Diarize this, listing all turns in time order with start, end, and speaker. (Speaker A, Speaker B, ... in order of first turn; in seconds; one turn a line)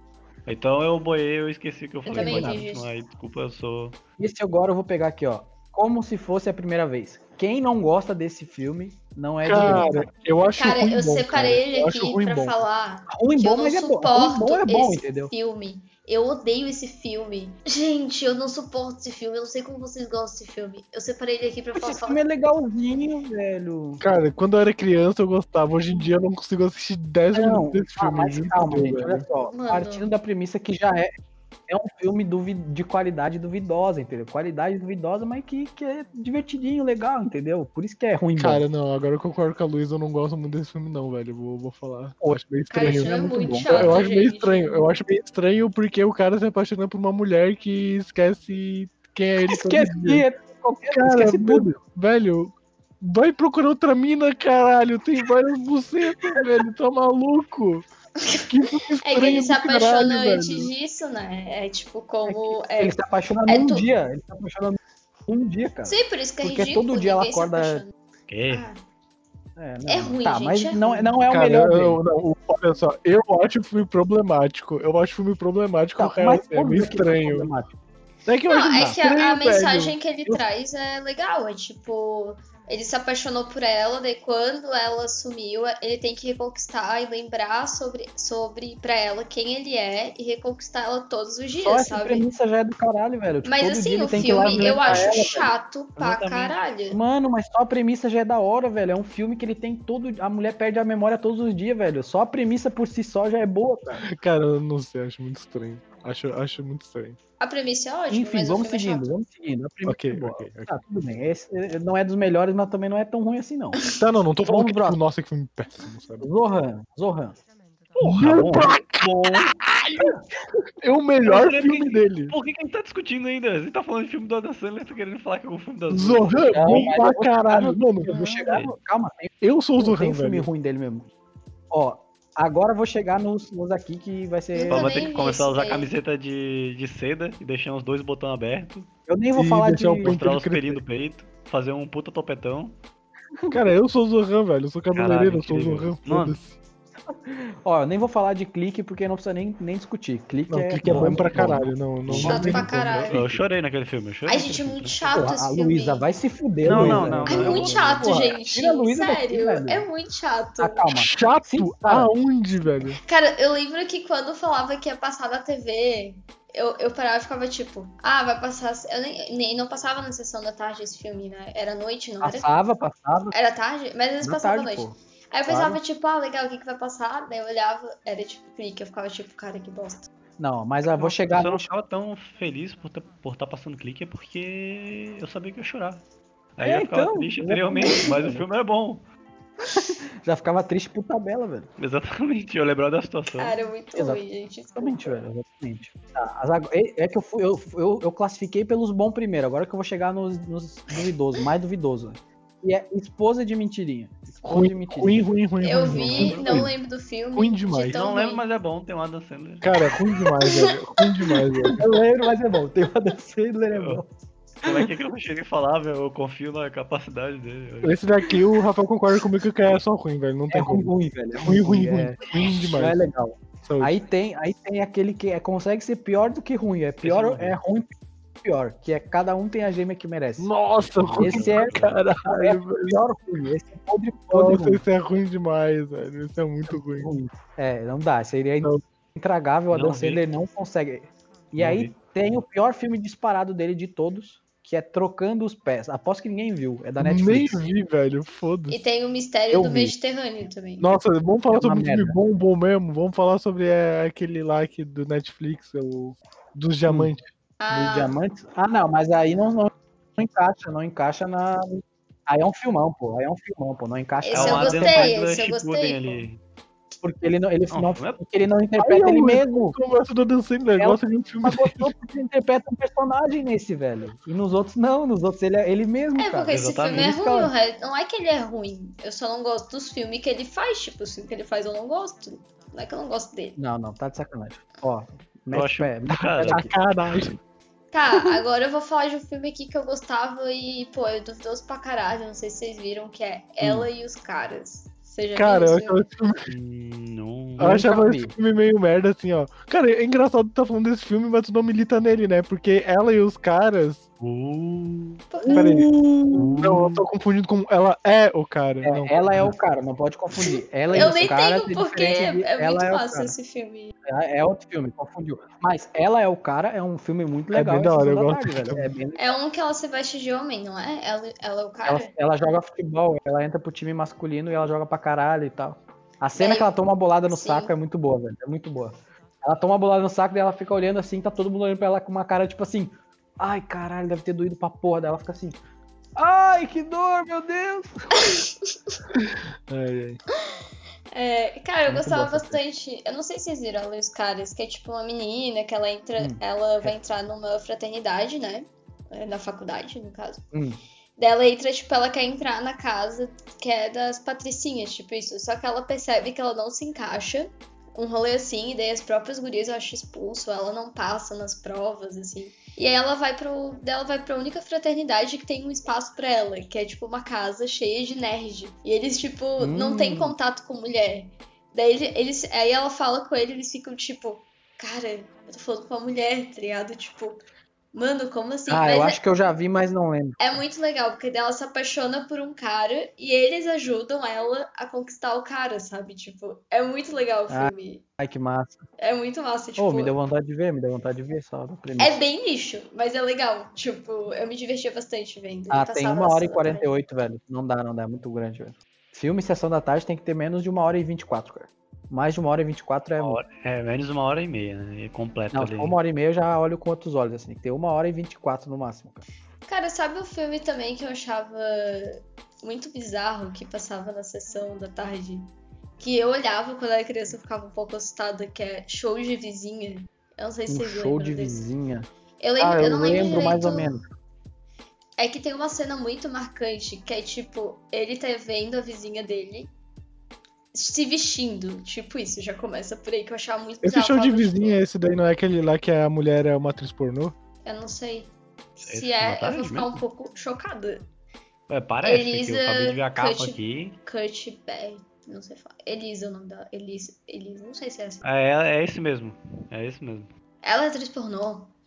Speaker A: 0.5-4.0
Speaker B: 2.1-2.9
Speaker C: 2.1-2.6
Speaker C: 4.2-10.1
Speaker D: 9.4-12.6
Speaker B: 9.6-9.8
Speaker B: 10.6-22.2
Speaker C: 13.1-15.3
Speaker C: 21.7-24.0
Speaker D: 24.0-29.2
Speaker C: 27.3-31.1
Speaker B: 29.5-30.1
Speaker C: 31.7-38.6
Speaker D: 38.4-50.2
Speaker C: 42.2-44.0
Speaker B: 42.7-44.9
Speaker C: 49.5-51.7
Speaker D: 50.9-57.9
Speaker B: 58.2-58.5
Speaker D: 58.5-60.7
Speaker B: 59.0-63.0
Speaker C: 62.3-67.8
Speaker B: 63.5-63.9
Speaker B: 65.9-67.9
Speaker A: 68.3-68.7
Speaker B: 68.5-68.8
Speaker C: 69.6-72.0
Speaker B: 69.9-71.1
Speaker D: 71.3-77.5
Speaker C: 76.0-77.7
Speaker D: 78.3-80.4
Speaker B: 78.5-92.3
Speaker C: 91.6-95.5
Speaker B: 93.4-97.0
Speaker A: 94.2-95.1
Speaker A: 96.0-96.6
Speaker C: 96.9-104.0
Speaker D: 104.0-107.2
Speaker B: 107.4-109.1
Speaker C: 108.1-113.8
Speaker D: 109.9-110.7
Speaker D: 114.0-116.3
Speaker C: 114.4-115.0
Speaker C: 116.2-117.4
Speaker D: 118.0-120.2
Speaker A: 118.0-119.5
Speaker D: 120.8-122.3
Speaker A: 121.2-126.8
Speaker D: 125.9-128.6
Speaker C: 126.5-131.1
Speaker D: 129.4-130.5
Speaker C: 131.7-134.9
Speaker B: 134.6-135.9
Speaker A: 134.7-138.9
Speaker C: 139.1-140.2
Speaker D: 139.3-140.8
Speaker A: 140.0-142.8
Speaker C: 143.4-143.7
Speaker D: 143.5-146.6
Speaker A: 144.9-146.4
Speaker C: 147.1-153.0
Speaker D: 150.5-153.4
Speaker A: 152.1-152.3
Speaker B: 152.2-153.2
Speaker A: 153.1-155.2
Speaker B: 154.3-156.1
Speaker C: 155.1-159.9
Speaker A: 156.6-158.2
Speaker D: 156.7-157.4
Speaker B: 157.3-160.9
Speaker C: 160.6-162.1
Speaker D: 160.9-163.0
Speaker B: 163.0-172.5
Speaker C: 172.2-173.3
Speaker B: 173.3-180.1
Speaker C: 174.2-175.8
Speaker C: 180.4-181.7
Speaker A: 180.9-186.0
Speaker A: 186.6-189.0
Speaker C: 186.6-188.4
Speaker C: 189.7-191.7
Speaker A: 191.8-193.6
Speaker B: 193.4-195.2
Speaker C: 194.8-205.4
Speaker D: 204.4-206.7
Speaker B: 205.6-208.4
Speaker A: 206.0-206.4
Speaker C: 206.3-206.6
Speaker D: 207.3-208.0
Speaker A: 207.9-209.9
Speaker D: 209.6-211.9
Speaker B: 210.4-210.7
Speaker C: 211.7-214.1
Speaker A: 213.7-214.0
Speaker A: 214.6-218.0
Speaker D: 217.8-220.9
Speaker C: 220.5-227.9
Speaker D: 221.4-223.0
Speaker D: 223.6-224.0
Speaker A: 227.0-227.6
Speaker C: 228.4-230.5
Speaker D: 230.4-233.0
Speaker A: 230.9-232.0
Speaker C: 231.2-234.8
Speaker D: 234.3-237.1
Speaker C: 236.7-247.6
Speaker A: 239.7-240.2
Speaker A: 241.6-241.9
Speaker D: 247.0-248.9
Speaker B: 248.7-250.9
Speaker C: 249.5-249.9
Speaker D: 250.8-257.2
Speaker C: 251.5-252.2
Speaker C: 256.9-257.1
Speaker B: 257.6-258.1
Speaker C: 257.7-265.1
Speaker B: 264.2-266.2
Speaker A: 264.3-266.4
Speaker C: 267.0-269.8
Speaker A: 267.7-268.2
Speaker D: 268.8-271.9
Speaker C: 270.8-277.5
Speaker B: 276.2-283.6
Speaker A: 276.5-277.1
Speaker C: 283.6-286.7
Speaker A: 285.5-286.6
Speaker D: 286.4-287.4
Speaker B: 287.9-296.0
Speaker C: 293.6-293.9
Speaker D: 295.4-296.5
Speaker A: 296.5-297.8
Speaker C: 297.6-298.3
Speaker D: 297.6-304.1
Speaker A: 304.2-305.2
Speaker B: 305.3-305.7
Speaker D: 305.4-305.9
Speaker C: 305.5-306.6
Speaker A: 306.3-306.9
Speaker D: 306.6-309.3
Speaker C: 308.8-313.3
Speaker B: 310.4-313.9
Speaker C: 314.1-319.4
Speaker D: 317.5-318.9
Speaker B: 319.1-322.1
Speaker C: 321.8-335.6
Speaker B: 326.4-326.7
Speaker B: 327.3-327.7
Speaker C: 336.1-338.2
Speaker B: 338.2-339.0
Speaker D: 339.1-340.2
Speaker B: 341.1-350.4
Speaker C: 341.9-342.6
Speaker C: 346.2-346.9
Speaker C: 350.5-350.8
Speaker B: 351.2-377.4
Speaker C: 369.6-370.4
Speaker B: 377.9-379.2
Speaker C: 378.7-380.4
Speaker B: 380.4-388.0
Speaker C: 387.5-388.8
Speaker B: 389.0-390.1
Speaker C: 389.8-392.2
Speaker B: 392.0-396.9
Speaker C: 395.7-403.4
Speaker A: 403.2-406.0
Speaker C: 405.5-409.2
Speaker B: 409.7-421.6
Speaker C: 420.7-422.1
Speaker B: 422.4-423.9
Speaker C: 422.6-424.1
Speaker B: 425.2-429.7
Speaker B: 430.7-434.9
Speaker D: 433.8-437.4
Speaker B: 437.6-441.0
Speaker A: 438.9-440.0
Speaker A: 441.7-443.9
Speaker B: 442.0-448.2
Speaker A: 448.2-450.3
Speaker B: 450.6-451.7